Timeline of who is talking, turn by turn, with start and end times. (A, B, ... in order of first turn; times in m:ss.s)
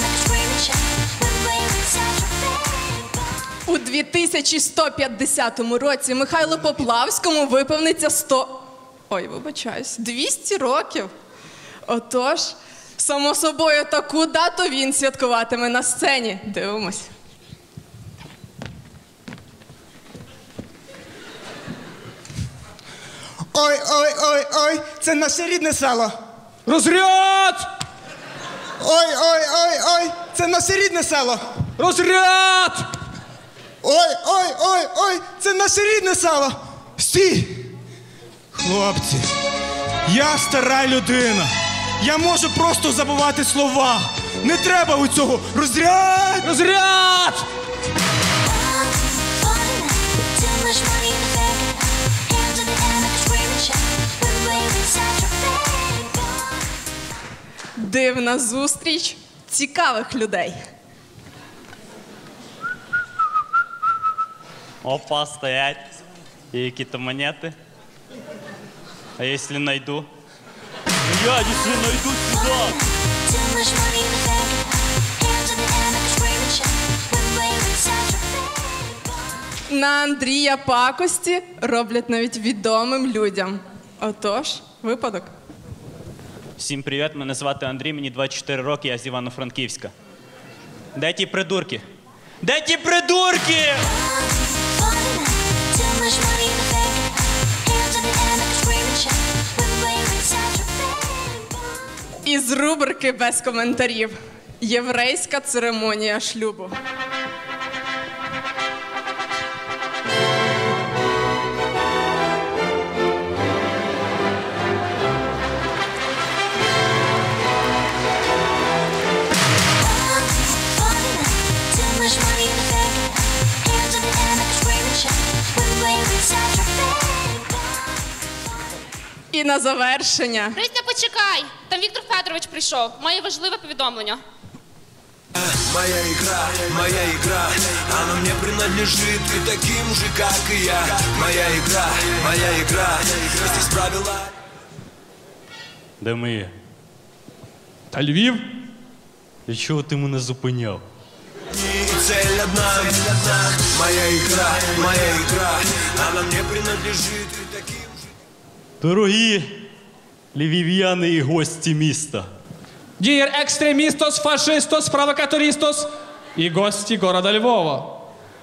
0:03.7-0:11.1 A
0:11.9-0:17.1 A
0:23.5-0:26.2 B
0:26.7-0:27.7 C
0:28.8-0:31.4 B
0:31.8-0:32.9 C
0:33.8-0:37.7 B
0:38.5-0:39.3 B
0:40.1-0:46.6 B
0:46.4-0:47.4 C
0:57.8-1:00.6 A
1:04.8-1:05.8 D
1:06.5-1:07.6 D
1:09.2-1:10.1 D
1:11.1-1:12.8 D
1:19.7-1:25.3 A
1:26.6-1:29.9 D
1:30.9-1:31.8 D
1:32.4-1:33.9 D
1:42.2-1:46.7 A
2:09.3-2:10.6 A
2:10.6-2:14.2 E
2:15.6-2:24.3 F
2:26.0-2:26.5 D
2:27.9-2:28.5 C
2:29.5-2:30.8 D
2:31.6-2:38.0 F
2:38.8-2:39.6 D
2:40.3-2:42.3 D
2:43.0-2:47.9 C